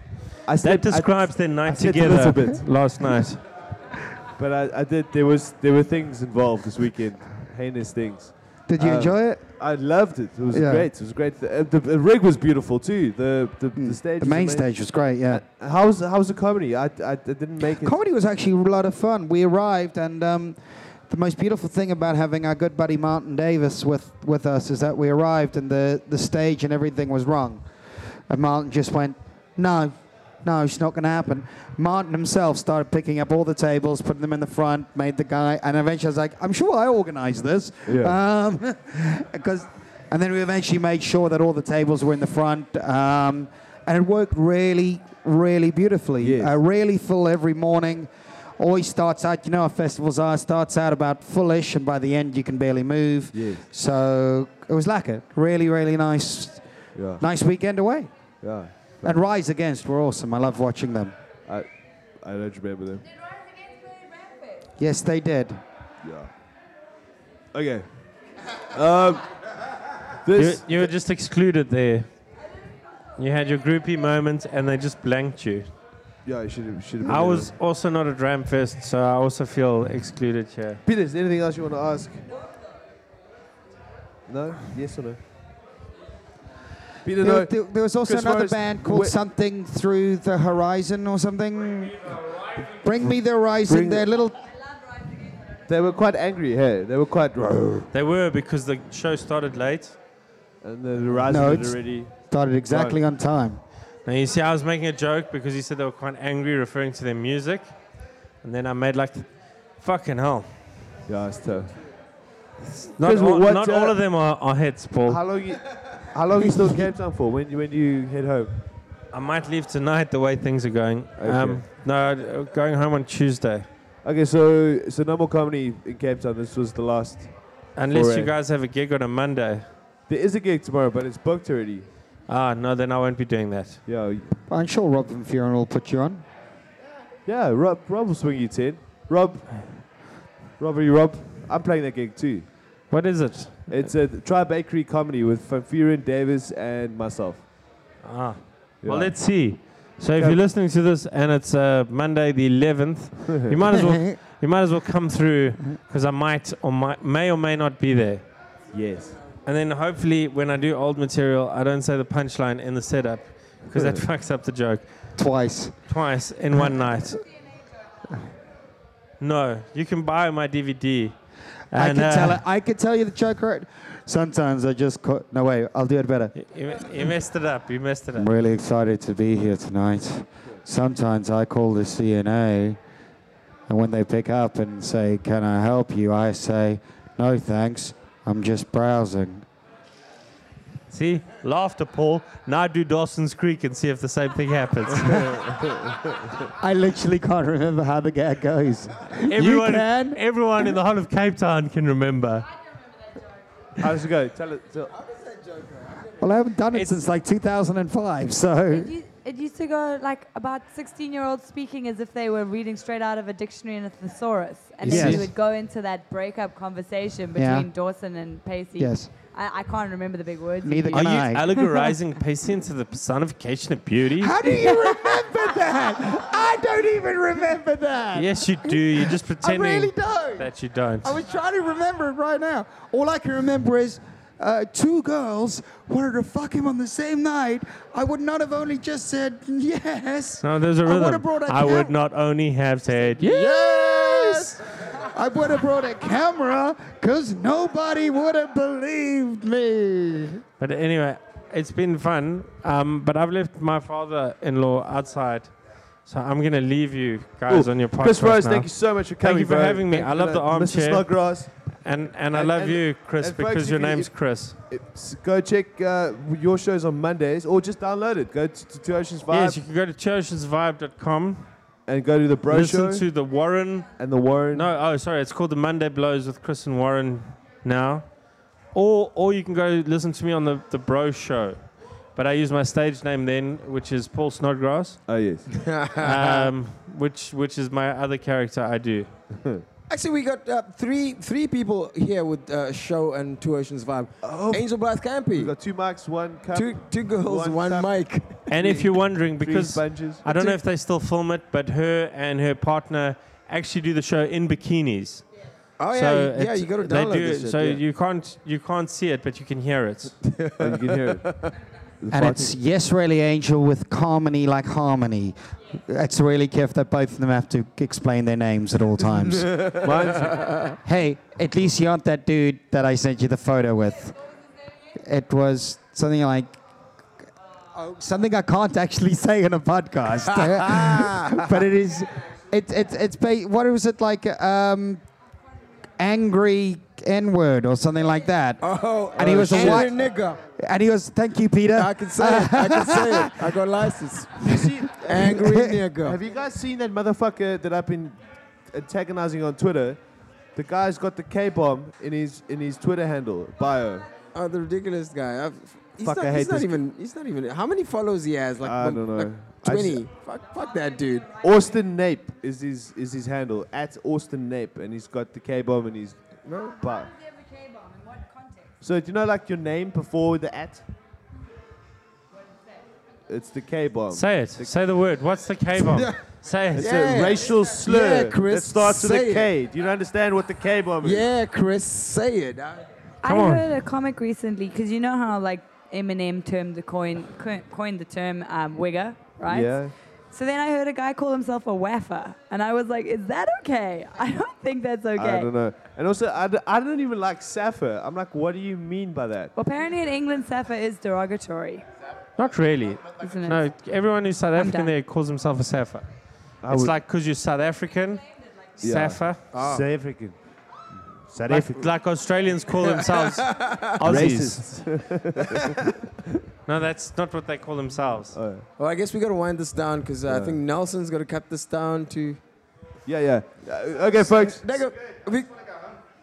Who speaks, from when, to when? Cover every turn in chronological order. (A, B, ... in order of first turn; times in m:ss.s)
0:00.5-0:02.7 A
0:00.6-0:03.4 B
0:04.4-0:14.7 A
0:08.7-0:09.4 C
0:10.5-0:10.9 C
0:13.8-0:15.4 C
0:15.3-0:18.0 A
0:17.8-0:56.6 C
0:37.9-0:38.2 A
0:46.2-0:46.5 A
0:53.3-0:53.7 A
0:57.0-0:57.2 A
0:57.2-0:58.1 C
0:58.4-0:59.2 A
0:59.0-1:01.2 C
1:02.2-1:03.1 A
1:04.8-1:05.6 C
1:06.0-1:06.3 A
1:07.5-1:07.9 A
1:08.7-1:09.3 A
1:10.2-1:10.9 A
1:10.4-1:12.1 B
1:13.2-1:15.7 B
1:16.2-1:17.5 A
1:17.0-1:20.8 B
1:20.8-1:22.2 A
1:24.3-1:25.2 A
1:27.0-1:29.2 A
1:27.2-1:34.4 C
1:33.7-1:34.1 A
1:35.7-1:37.9 A
1:37.9-1:40.0 B
1:40.6-1:42.2 A
1:41.3-1:43.6 C
1:42.7-1:43.0 A
1:44.0-1:47.7 B
1:48.4-1:50.5 B
1:51.1-1:51.8 A
1:52.7-1:55.2 B
1:53.0-1:54.0 A
1:55.1-1:58.5 A
1:59.1-2:03.7 B
2:01.2-2:01.6 A
2:04.0-2:08.3 A
2:07.8-2:09.7 B
2:10.1-2:11.9 A
2:12.3-2:13.8 B
2:13.9-2:14.4 A
2:14.5-2:16.2 C
2:17.3-2:19.9 A
2:20.6-2:22.5 A
2:22.9-2:23.9 B
2:23.7-2:27.4 A
2:28.0-2:38.2 B
2:28.8-2:29.2 A
2:33.8-2:34.1 C
2:38.7-2:39.2 A
2:39.4-2:44.9 B
2:45.2-2:45.8 C
2:45.9-2:47.3 B
2:49.2-2:51.2 B
2:51.7-2:52.4 B
2:51.7-2:56.4 C
2:56.4-2:58.3 B
2:58.2-3:02.8 C
3:03.7-3:09.5 C
3:10.9-3:15.6 B
3:15.6-3:15.9 A
3:16.6-3:20.7 C
3:19.3-3:22.5 B
3:23.8-3:24.9 A
3:25.6-3:25.9 D
3:26.2-3:28.9 C
3:26.7-3:27.0 B
3:28.7-3:41.9 E
3:34.8-3:35.3 B
3:34.9-3:35.3 C
3:37.4-3:37.7 C
3:38.8-3:39.1 C
3:40.6-3:41.6 C
3:40.9-3:44.4 B
3:44.2-3:50.5 C
3:44.6-3:45.0 E
3:48.1-3:51.2 B
3:51.0-4:01.9 C
4:00.4-4:03.6 B
4:03.0-4:10.4 C
4:04.1-4:04.4 B
4:10.6-4:24.6 B
4:17.5-4:21.5 A
4:22.3-4:29.6 A
4:29.3-4:31.5 B
4:31.9-4:33.1 A
4:32.5-4:33.9 B
4:34.0-4:34.7 A
4:34.5-4:38.1 B
4:38.7-4:45.0 B
4:45.1-4:45.5 A
4:45.5-4:46.5 D
4:46.0-4:49.1 B
4:49.3-4:49.6 A
4:49.9-4:55.5 D
4:54.2-4:54.7 A
4:55.3-4:57.9 A
4:56.5-4:58.4 D
4:58.5-5:00.3 A
4:58.5-5:05.3 B
5:05.8-5:07.8 D
5:05.9-5:10.2 B
5:10.3-5:11.0 D
5:10.6-5:11.5 A
5:12.0-5:12.5 A
5:12.1-5:19.8 C
5:19.6-5:20.8 D
5:19.8-5:20.4 A
5:19.9-5:20.4 B
5:20.8-5:24.2 C
5:25.0-5:26.6 C
5:27.7-5:35.1 C
5:30.4-5:31.4 D
5:36.0-5:40.0 C
5:38.6-5:40.4 D
5:39.1-5:40.1 A
5:40.5-5:43.6 C
5:41.8-5:46.2 D
5:44.4-5:45.4 A
5:45.3-5:45.8 C
5:46.0-5:54.1 A
5:54.3-6:01.4 D
5:56.0-5:56.8 A
5:58.6-6:00.0 A
6:01.3-6:07.1 A
6:06.5-6:06.8 D
6:08.8-6:10.8 A
6:13.3-6:14.7 A
6:14.1-6:16.9 B
6:16.7-6:21.3 A
6:16.8-6:19.5 D
6:21.0-6:22.9 D
6:23.2-6:35.5 E
6:23.3-6:23.7 B
6:29.5-6:29.9 A
6:35.2-6:39.5 A
6:39.6-6:41.8 E
6:42.4-6:49.4 B
6:43.2-6:43.6 E
6:44.6-6:44.9 E
6:46.6-6:47.0 A
6:48.8-6:50.4 A
6:49.5-6:49.9 D
6:51.2-6:51.9 A
6:51.5-6:55.0 B
6:53.1-6:54.0 D
6:54.0-6:56.1 A
6:56.7-6:58.4 B
6:58.3-6:58.6 A
6:58.8-7:02.4 D
7:00.3-7:00.6 A
7:03.1-7:04.8 A
7:04.2-7:05.7 D